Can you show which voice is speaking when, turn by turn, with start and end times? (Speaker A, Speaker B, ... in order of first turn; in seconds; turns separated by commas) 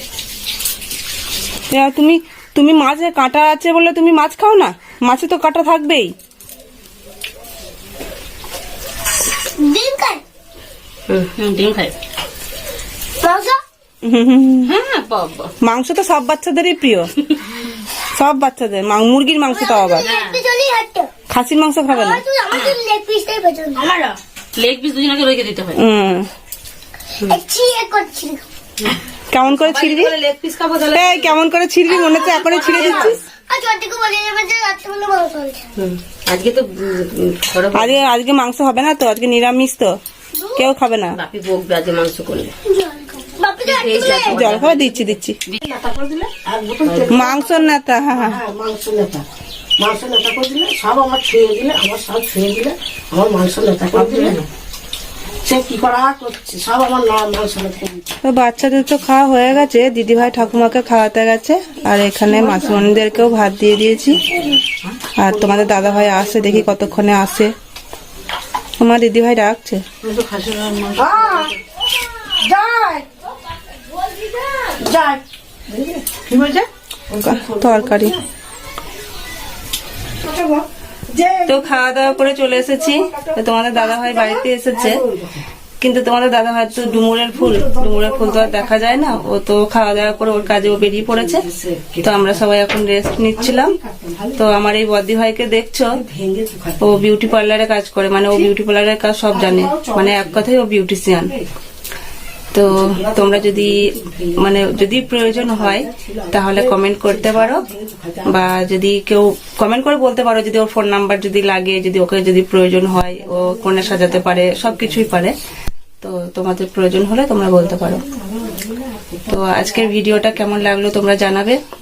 Speaker A: 1.7-6.1, Speaker B: 9.6-10.2, Speaker C: 11.3-11.9, Speaker B: 13.2-13.6, Speaker A: 14.0-14.7, Speaker C: 14.7-15.5, Speaker A: 15.6-17.1, Speaker A: 18.1-20.1, Speaker B: 19.5-21.1, Speaker C: 20.0-20.4, Speaker A: 21.3-22.2, Speaker B: 21.9-23.9, Speaker C: 22.5-22.8, Speaker C: 24.6-25.8, Speaker A: 25.8-26.3, Speaker B: 27.3-28.4, Speaker D: 28.9-31.4, Speaker A: 29.3-30.1, Speaker A: 30.9-33.2, Speaker B: 31.9-35.7, Speaker D: 32.0-33.2, Speaker D: 35.8-38.0, Speaker A: 37.7-39.9, Speaker B: 40.4-40.7, Speaker A: 40.6-41.2, Speaker D: 41.2-42.5, Speaker B: 42.7-44.5, Speaker D: 43.6-46.2, Speaker A: 44.1-45.4, Speaker E: 45.6-49.2, Speaker D: 46.9-47.2, Speaker A: 47.1-48.4, Speaker E: 49.8-54.4, Speaker D: 53.9-54.4, Speaker E: 55.4-58.0, Speaker A: 58.2-64.2, Speaker E: 62.3-62.7, Speaker A: 65.2-67.5, Speaker A: 68.8-69.8, Speaker C: 70.0-71.6, Speaker E: 71.0-71.5, Speaker E: 72.3-73.1, Speaker E: 74.6-76.6, Speaker E: 77.1-78.2, Speaker A: 77.2-78.2, Speaker E: 80.2-85.5, Speaker A: 81.5-85.0, Speaker A: 85.8-91.5, Speaker E: 86.8-89.2, Speaker E: 91.1-92.4, Speaker A: 92.0-93.8, Speaker E: 93.4-94.5, Speaker A: 94.4-96.0, Speaker E: 95.9-97.0, Speaker A: 96.8-101.3, Speaker E: 99.3-100.5, Speaker A: 102.5-107.6, Speaker E: 102.7-108.5, Speaker A: 108.2-115.3, Speaker E: 113.2-115.2, Speaker A: 116.0-118.0, Speaker E: 117.8-119.7, Speaker A: 119.3-121.6